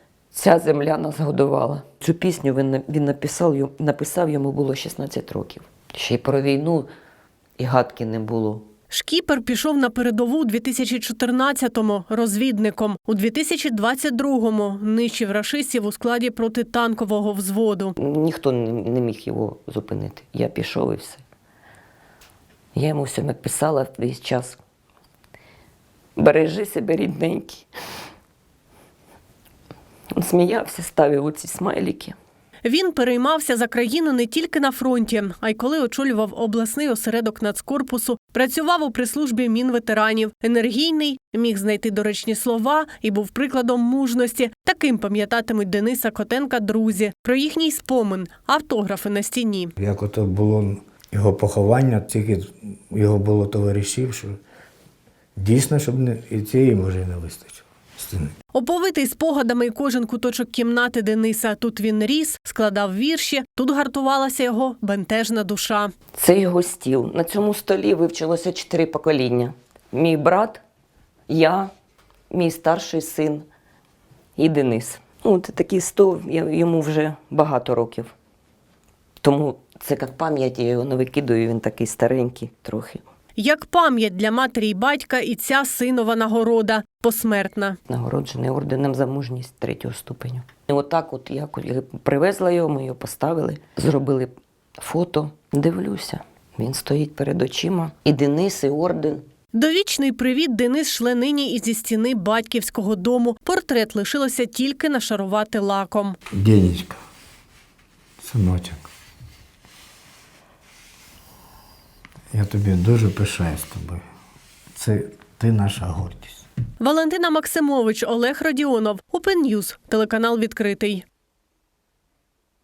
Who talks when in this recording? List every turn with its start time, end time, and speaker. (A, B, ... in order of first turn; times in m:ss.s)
0:00.3-0:06.9 A
0:07.6-0:08.7 A
0:08.9-0:17.9 B
0:18.0-0:21.2 A
0:22.7-0:24.6 A
0:26.2-0:27.7 A
0:30.1-0:32.2 A
0:32.6-0:49.7 B
0:49.8-0:54.4 C
0:55.4-0:58.3 C
0:58.5-1:05.9 B
1:06.2-1:10.6 A
1:11.3-1:11.7 A
1:12.3-1:13.5 A
1:14.4-1:18.1 A
1:19.2-1:23.0 A
1:23.4-1:27.8 B
1:27.9-1:39.3 A
1:39.5-1:46.2 B
1:46.3-1:47.0 C
1:48.2-1:48.9 C
1:52.3-1:54.1 C
1:54.7-1:56.5 C
1:56.8-2:01.0 B